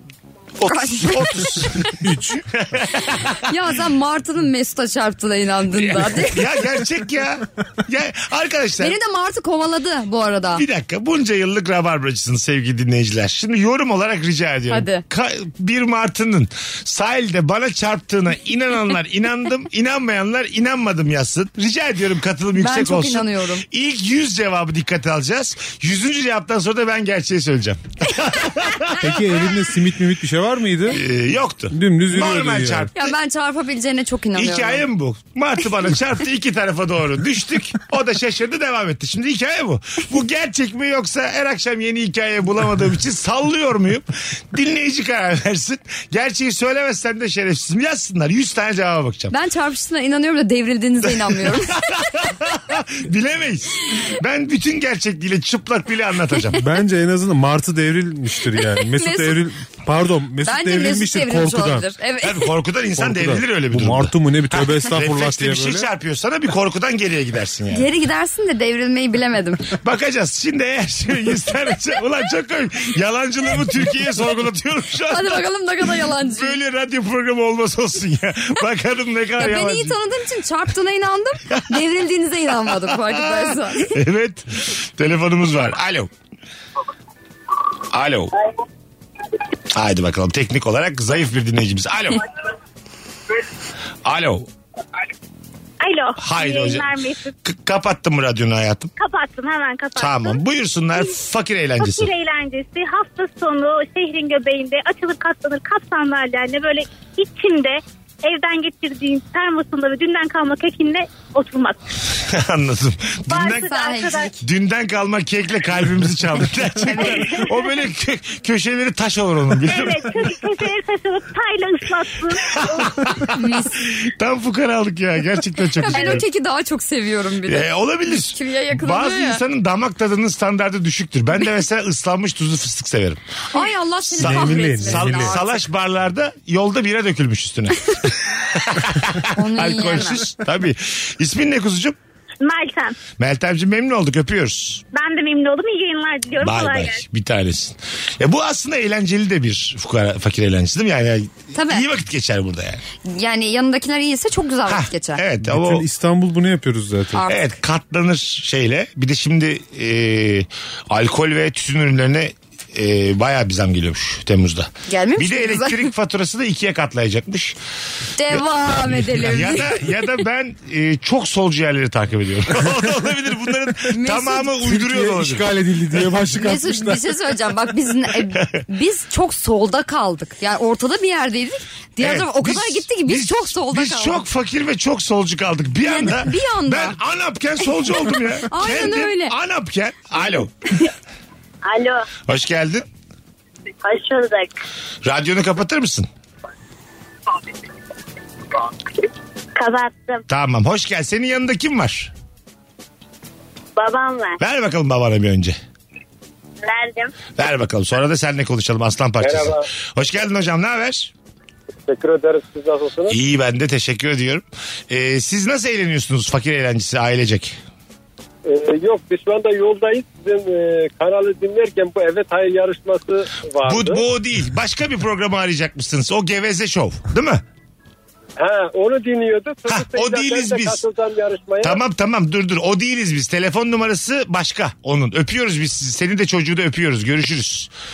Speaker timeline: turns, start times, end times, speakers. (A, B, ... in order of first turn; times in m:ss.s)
0:00.6-0:03.3 A
0:00.7-0:01.9 B
0:02.0-0:02.4 C
0:03.4-0:06.6 B
0:05.7-0:08.9 A
0:08.8-0:10.6 B
0:10.5-0:29.1 A
0:14.7-0:15.0 B
0:22.6-0:23.6 B
0:29.0-0:31.0 C
0:30.9-0:33.1 A
0:31.7-0:32.9 C
0:32.9-0:34.8 B
0:34.3-0:49.3 A
0:49.3-0:51.8 B
0:51.1-0:56.6 A
0:56.6-1:01.9 C
0:58.7-0:59.4 B
1:00.4-1:02.5 B
1:02.2-1:07.9 A
1:03.0-1:05.9 C
1:07.7-1:09.7 B
1:09.8-1:15.4 A
1:15.1-1:16.6 B
1:16.2-1:20.0 A
1:19.4-1:23.9 B
1:23.0-1:26.1 A
1:27.9-1:28.3 A
1:29.7-1:32.2 A
1:34.0-1:34.5 A
1:35.8-1:37.3 D
1:36.2-1:36.9 A
1:37.4-1:38.9 A
1:39.0-1:40.4 D
1:40.0-1:42.1 A
1:41.8-1:51.8 D
1:52.2-1:53.7 A
1:53.3-1:54.3 D
1:53.4-1:54.4 B
1:54.4-2:00.4 A
1:56.8-1:57.4 B
1:57.0-1:57.6 D
1:59.6-2:02.9 D
2:02.4-2:06.2 A
2:03.3-2:03.8 B
2:05.8-2:07.7 B
2:07.4-2:22.0 A
2:08.3-2:09.4 B
2:13.5-2:15.5 B
2:14.2-2:15.4 C
2:19.3-2:20.2 B
2:22.4-2:23.0 D
2:23.2-2:24.8 A
2:24.9-2:27.0 D
2:26.4-2:32.8 A
2:31.5-2:31.8 B
2:33.0-2:35.2 B
2:34.7-2:35.8 A
2:35.4-2:37.2 C
2:37.1-2:37.5 B
2:37.2-2:47.6 A
2:44.9-2:45.9 B
2:48.2-2:49.8 B
2:48.3-2:55.5 A
2:53.9-2:54.6 B
2:54.6-2:57.1 C
2:56.3-3:04.2 B
3:02.0-3:10.5 A
3:05.8-3:07.0 B
3:08.4-3:09.3 B
3:11.7-3:12.0 D
3:12.3-3:12.8 A
3:13.8-3:14.5 D
3:15.0-3:16.1 A
3:19.6-3:20.2 D
3:20.3-3:22.1 A
3:23.8-3:24.4 D
3:24.4-3:25.6 A
3:26.6-3:27.1 D
3:27.4-3:31.1 A
3:29.2-3:29.6 E
3:31.8-3:33.2 E
3:33.1-3:37.6 A
3:38.4-3:44.0 E
3:43.6-3:47.4 A
3:48.4-3:51.8 E
3:49.7-3:50.8 A
3:51.6-3:57.7 A